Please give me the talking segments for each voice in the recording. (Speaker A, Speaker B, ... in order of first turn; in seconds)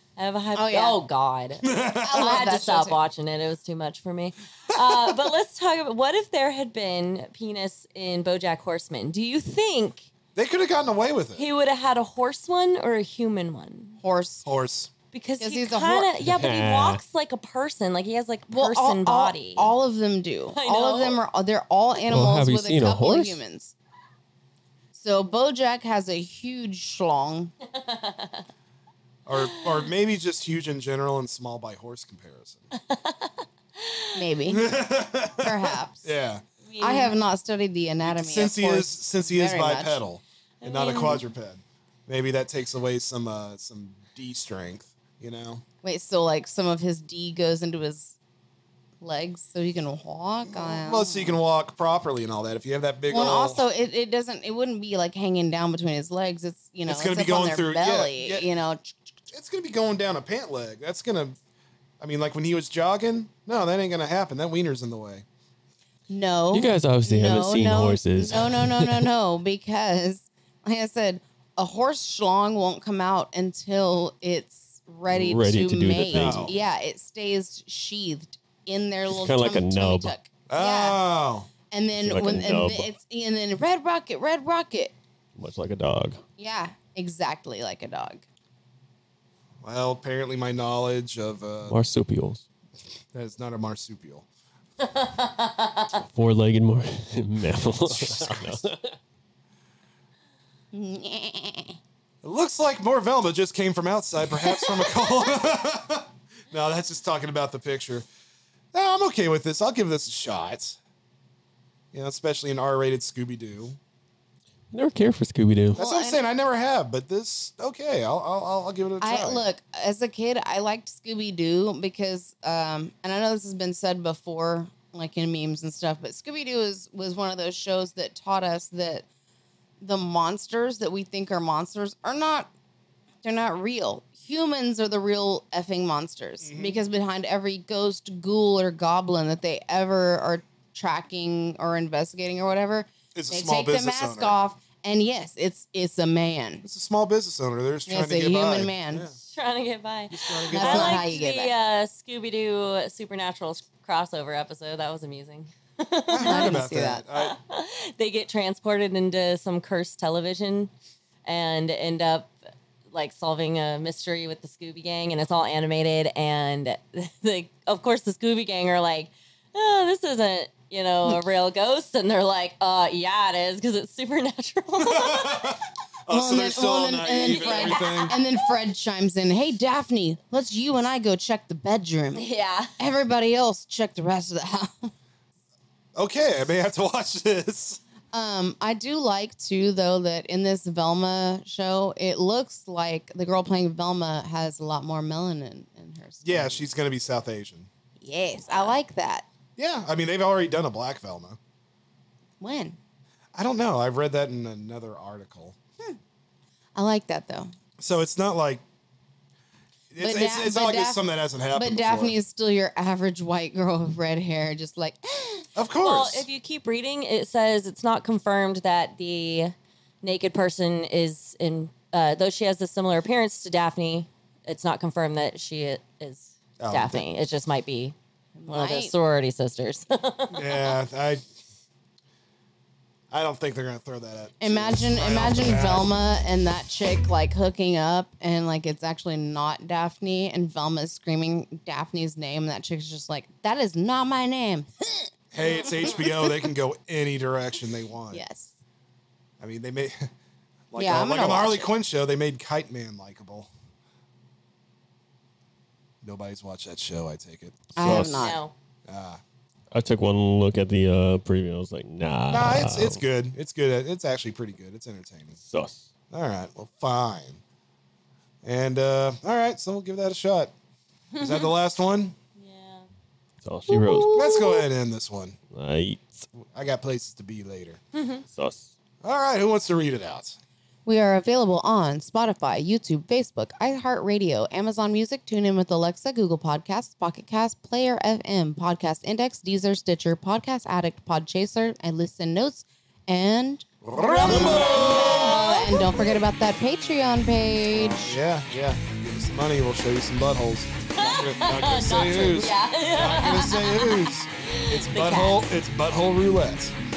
Speaker A: 0.2-10.1, 11.3-14.0, 15.1-19.7, 20.5-21.2, 27.7-28.4, 32.7-34.1, 36.6-37.1, 40.6-41.2, 94.8-95.9, 149.2-156.6, 157.2-160.7, 161.2-162.3, 162.9-175.5, 177.0-178.2, 182.2-182.7, 215.8-227.9, 228.5-230.8, 258.1-258.5, 272.4-272.9, 277.9-278.2, 294.0-296.2, 300.9-305.5
Speaker B: 0.5-1.0, 1.9-3.0, 14.0-14.4, 15.4-16.1, 18.5-23.7, 24.9-27.5, 34.1-34.7, 35.4-36.1, 36.8-40.0, 45.8-48.1, 49.0-51.4, 53.1-59.0, 66.1-81.0, 81.7-84.9, 86.4-88.2, 100.7-101.8, 115.7-116.2, 119.0-129.1, 129.8-132.5, 133.2-146.6, 147.9-149.1, 150.5-151.5, 156.2-157.0, 176.1-182.2, 182.8-184.9, 188.1-196.7, 198.0-199.2, 202.4-202.8, 206.8-207.5, 210.0-215.5, 228.4-228.9, 234.4-246.4, 248.1-248.5, 250.8-251.7, 257.7-258.4, 273.7-274.6, 280.9-298.1
Speaker C: 1.6-2.5, 4.7-5.1, 10.3-11.5, 14.4-14.9, 29.2-32.7, 34.5-36.4, 38.0-45.6, 50.4-53.6, 56.9-58.5, 59.3-61.4, 62.0-65.2, 76.1-76.5, 80.5-81.5, 89.6-91.8, 93.1-94.2, 97.9-98.6, 102.2-108.0, 108.7-110.8, 111.9-113.8, 115.7-119.4, 136.4-136.8, 143.1-144.4, 146.6-149.1, 150.1-151.0, 156.1-157.4, 174.8-178.2, 185.9-187.8, 196.2-197.7, 199.6-201.4, 203.3-205.6, 207.8-208.6, 209.9-212.2, 215.6-216.3, 226.6-227.0, 230.3-231.2, 233.1-236.0, 245.3-248.2, 249.4-250.1, 250.7-253.5, 256.0-258.1, 258.9-259.2, 262.3-265.4, 266.1-267.4, 268.4-270.5, 271.2-272.1, 274.1-275.4, 276.4-277.8, 279.0-280.4, 293.8-295.5, 297.7-306.7
Speaker D: 16.2-17.0, 22.1-23.4, 66.5-69.1, 75.1-76.6, 79.1-80.1, 82.0-82.9, 85.4-86.2, 91.7-92.4, 96.0-99.0, 114.7-115.8, 257.8-258.3, 259.7-263.0, 265.4-265.9, 273.4-274.1, 275.5-276.3, 278.3-278.7